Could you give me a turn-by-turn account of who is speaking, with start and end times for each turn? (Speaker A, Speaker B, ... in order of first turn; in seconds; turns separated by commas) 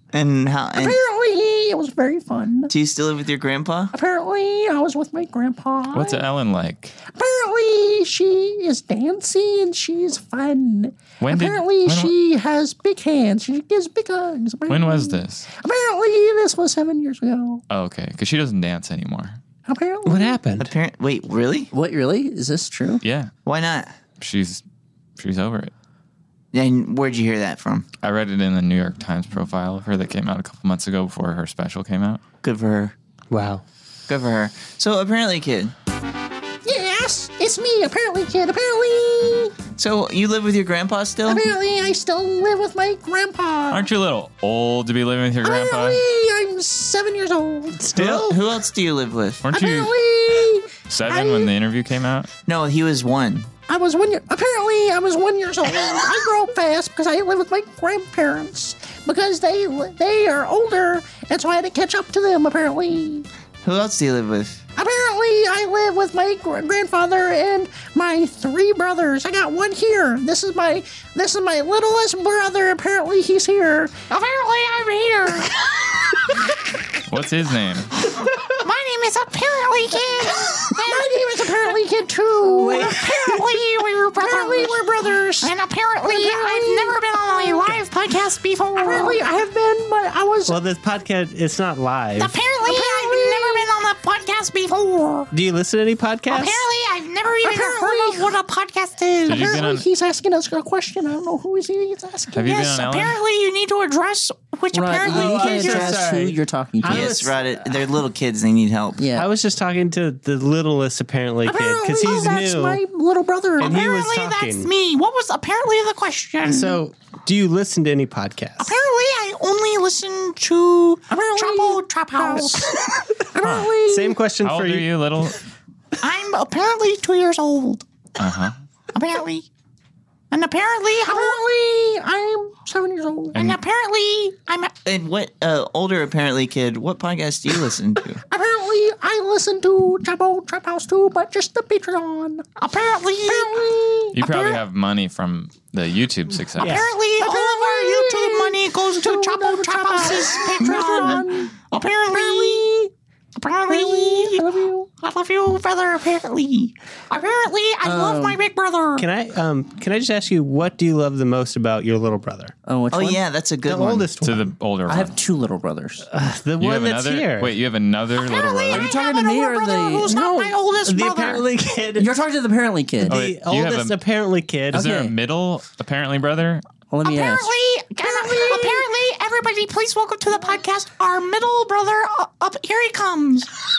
Speaker A: 0.1-1.0, Speaker B: 0.8-2.7, Speaker A: 2.7-3.9, Speaker B: 3.9-6.2, Speaker C: 5.9-7.0, Speaker B: 7.1-17.6, Speaker C: 11.2-12.1, Speaker C: 14.7-15.5, Speaker C: 17.7-19.4, Speaker B: 19.6-20.4, Speaker D: 20.1-20.7, Speaker A: 20.6-21.7, Speaker B: 21.7-23.0, Speaker C: 23.0-23.3, Speaker A: 23.4-23.9, Speaker C: 24.2-24.6, Speaker C: 25.2-25.7, Speaker A: 26.5-27.9, Speaker C: 28.0-32.2, Speaker A: 32.4-32.9, Speaker D: 33.3-33.6, Speaker A: 34.1-35.7, Speaker B: 36.6-39.5, Speaker A: 39.8-41.4, Speaker B: 41.2-43.9, Speaker C: 43.7-46.0, Speaker B: 45.4-47.9, Speaker D: 47.8-48.4, Speaker A: 47.9-49.4, Speaker C: 49.4-49.9, Speaker B: 49.5-51.5, Speaker C: 50.9-52.3, Speaker A: 52.5-53.5, Speaker B: 53.7-63.2, Speaker A: 63.6-64.6, Speaker B: 64.8-74.1, Speaker E: 74.1-75.6, Speaker C: 77.0-78.0, Speaker E: 78.6-81.2, Speaker B: 80.7-83.1, Speaker D: 82.6-83.4, Speaker E: 82.8-89.2, Speaker B: 84.2-87.6, Speaker B: 88.8-90.6, Speaker D: 90.5-92.4, Speaker E: 92.2-95.3, Speaker B: 92.6-93.7, Speaker D: 95.3-96.6, Speaker E: 96.3-99.6, Speaker B: 97.4-98.3, Speaker C: 99.2-99.9, Speaker B: 99.3-102.5, Speaker C: 102.3-103.2, Speaker E: 102.5-106.0, Speaker B: 104.7-107.2, Speaker D: 105.0-107.5, Speaker A: 106.8-109.0, Speaker B: 109.0-109.3, Speaker D: 109.1-112.8, Speaker B: 111.4-113.8, Speaker D: 113.6-114.7, Speaker E: 113.6-116.8, Speaker D: 116.4-118.8, Speaker E: 118.6-122.8, Speaker B: 121.1-124.2, Speaker C: 123.4-123.8, Speaker D: 123.9-124.9, Speaker C: 124.4-125.4, Speaker E: 126.0-127.9, Speaker C: 128.2-128.6, Speaker E: 128.9-129.5, Speaker E: 130.3-131.4, Speaker B: 131.1-133.4, Speaker E: 133.3-134.7, Speaker A: 134.8-138.2, Speaker B: 138.3-142.4, Speaker E: 142.6-143.7, Speaker B: 143.2-144.2, Speaker C: 144.1-146.9, Speaker E: 144.2-144.6, Speaker D: 146.6-146.9, Speaker E: 146.6-152.7, Speaker B: 147.2-151.5, Speaker B: 152.1-152.9, Speaker E: 153.4-154.5, Speaker B: 153.7-154.9, Speaker E: 155.0-159.1, Speaker B: 157.8-158.4, Speaker D: 159.0-162.5, Speaker B: 162.7-163.2, Speaker A: 162.9-164.1, Speaker D: 163.7-164.5, Speaker C: 164.2-165.1, Speaker B: 164.9-166.1, Speaker D: 166.1-167.5, Speaker C: 166.6-168.9, Speaker E: 168.2-171.6, Speaker B: 168.7-170.1, Speaker D: 170.1-172.1, Speaker B: 171.9-173.2, Speaker D: 173.0-174.9, Speaker C: 173.1-174.0, Speaker B: 174.7-175.1, Speaker C: 174.7-176.6, Speaker B: 176.9-178.9, Speaker E: 177.0-183.5